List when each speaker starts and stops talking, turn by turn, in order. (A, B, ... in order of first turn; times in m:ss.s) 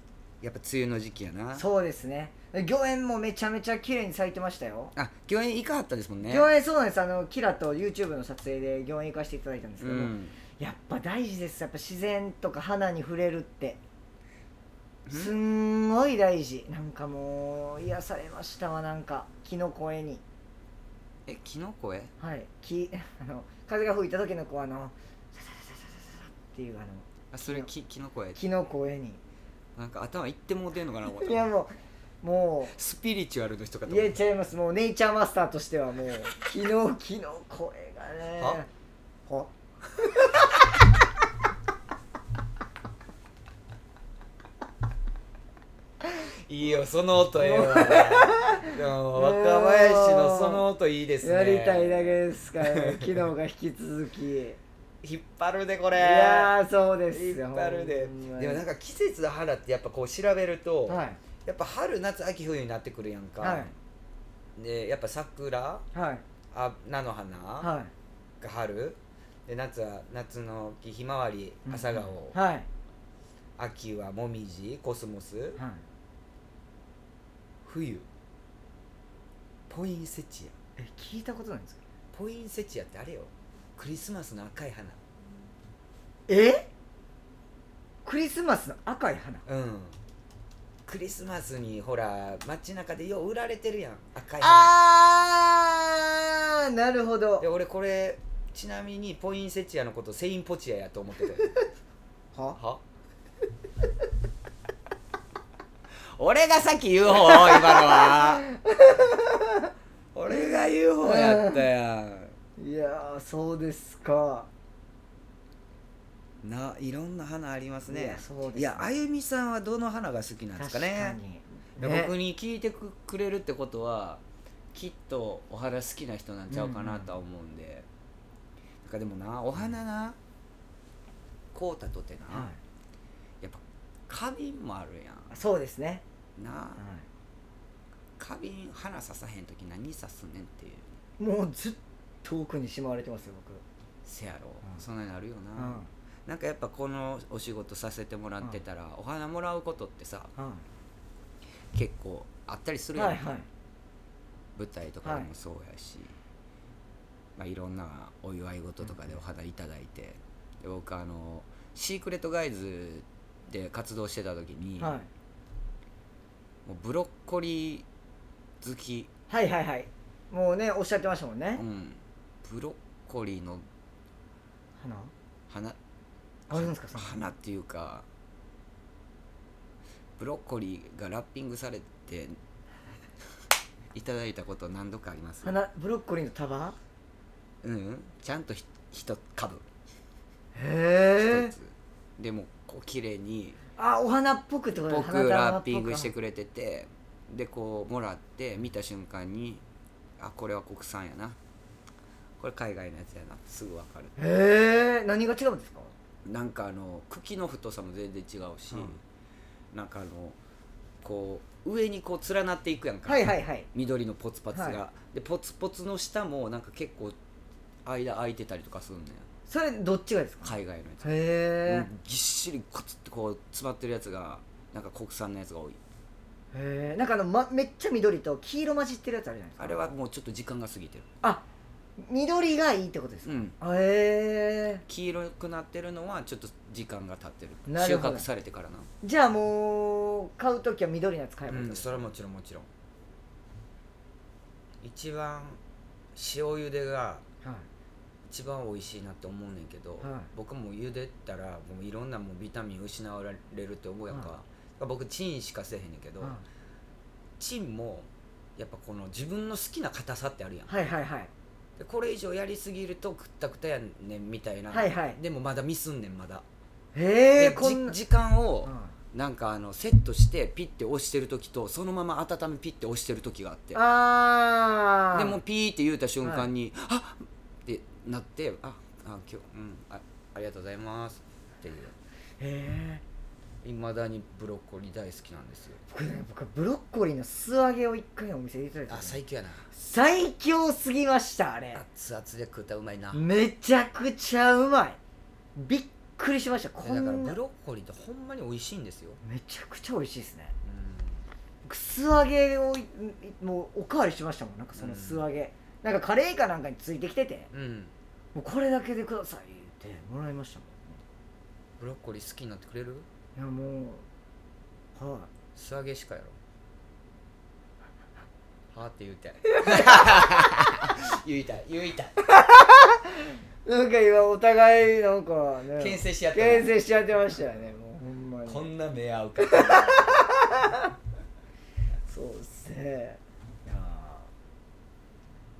0:00.4-0:01.6 A
0:01.6-0:05.0 B
0:05.0-0:06.5 A
0:06.3-0:13.8 B
0:09.8-0:10.4 A
0:15.1-0:15.3 A
0:15.1-0:20.2 B
0:21.3-0:22.1 A
0:22.2-0:27.7 B
0:27.3-0:28.4 A
0:28.4-0:29.2 B
0:29.8-0:31.4 A
0:31.2-0:32.8 B
0:32.7-0:34.2 A
0:33.9-0:38.7 B
0:46.5-0:53.3 A
0:47.4-0:50.6 B
0:51.2-0:54.6 B
0:55.0-0:56.5 A
0:56.0-0:58.6 B
0:57.1-1:03.7 A
1:00.9-1:01.2 B
1:03.4-1:03.7 B
1:04.6-1:05.8 A
1:05.9-1:06.2 B
1:06.5-1:07.7 A
1:07.6-1:07.9 B
1:08.4-1:12.4 A
1:11.7-1:12.7 B
1:13.6-1:15.6 A
1:15.6-1:15.8 B
1:17.6-1:18.1 A
1:19.7-1:20.6 A
1:20.8-1:21.8 B
1:22.1-1:25.0 A
1:26.3-1:26.7 B
1:28.0-1:29.4 B
1:29.5-1:30.0 A
1:30.9-1:34.7 A
1:34.4-1:37.5 B
1:37.4-1:41.6 A
1:42.6-1:42.8 A
1:46.2-1:48.5 A
1:47.2-1:49.7 B
1:50.1-1:52.4 A
1:50.3-1:51.6 B
1:52.6-1:54.5 B
1:56.4-2:01.2 A
1:57.9-1:59.0 B
2:00.6-2:02.1 B
2:01.8-2:04.2 A
2:04.7-2:07.9 A
2:06.5-2:07.2 B
2:08.8-2:10.2 A
2:11.5-2:12.5 A
2:12.3-2:12.6 B
2:13.4-2:15.4 A
2:15.3-2:16.0 B
2:16.4-2:16.8 A
2:16.8-2:17.1 B
2:18.2-2:20.9 A
2:21.2-2:23.6 B
2:24.0-2:30.3 A
2:25.6-2:25.9 B
2:30.4-2:30.6 B
2:31.7-2:33.2 A
2:33.0-2:33.5 B
2:34.6-2:36.2 A
2:35.0-2:35.3 B
2:37.4-2:45.0 A
2:44.8-2:45.1 B
2:46.6-2:47.9 A
2:48.6-2:49.1 A
2:49.3-2:51.6 B
2:51.6-2:53.6 A
2:54.8-2:55.1 B
2:55.5-2:55.8 A
2:56.5-2:57.2 B
2:56.5-2:58.1 A
3:00.2-3:02.4 A
3:03.9-3:05.5 A
3:05.4-3:06.8 B
3:07.6-3:09.6 A
3:10.6-3:11.5 B
3:11.2-3:13.6 A
3:13.8-3:16.1 B
3:14.9-3:19.6 A
3:20.2-3:21.4 A
3:22.4-3:24.2 A
3:24.2-3:25.9 B
3:26.2-3:29.0 A
3:28.7-3:29.0 B
3:29.7-3:30.4 A
3:31.0-3:37.2 A
3:33.1-3:33.7 B
3:34.5-3:34.8 B
3:37.8-3:39.3 A
3:39.5-3:41.9 B
3:40.4-3:45.8 A
3:46.5-3:49.9 B
3:49.6-3:51.1 A
3:52.0-3:54.8 B
3:53.2-3:53.6 A
3:54.9-3:58.9 A
3:57.7-3:58.3 B
3:59.0-4:02.0 B
4:01.5-4:02.7 A
4:04.8-4:05.6 A
4:06.2-4:07.2 A
4:07.4-4:07.7 B
4:08.3-4:16.4 A
4:10.0-4:10.3 B
4:14.1-4:14.4 B
4:17.4-4:20.7 A
4:20.7-4:21.3 B
4:21.8-4:26.4 A
4:24.7-4:25.2 B
4:26.9-4:28.0 B
4:27.4-4:33.8 A
4:28.6-4:29.0 B
4:33.7-4:35.4 B
4:35.1-4:42.0 A
4:36.2-4:36.5 B
4:42.4-4:43.0 B
4:43.6-4:45.8 A
4:45.9-4:49.2 B
4:48.9-4:49.7 A
4:49.7-4:51.8 B
4:51.8-4:53.3 A
4:53.1-4:55.0 B
4:55.6-4:57.4 B
4:56.8-4:59.2 A
4:59.2-5:00.5 B
5:00.6-5:01.2 A
5:01.6-5:07.5 B
5:04.8-5:05.2 A
5:07.5-5:07.9 A
5:08.4-5:11.0 B
5:11.8-5:13.1 A
5:13.4-5:14.0 B
5:15.0-5:15.3 B
5:15.6-5:16.4 A
5:18.7-5:22.2 A
5:19.5-5:20.0 B
5:22.3-5:28.7 B
5:25.8-5:26.7 A
5:28.5-5:30.3 A
5:29.4-5:30.9 B
5:32.1-5:34.3 B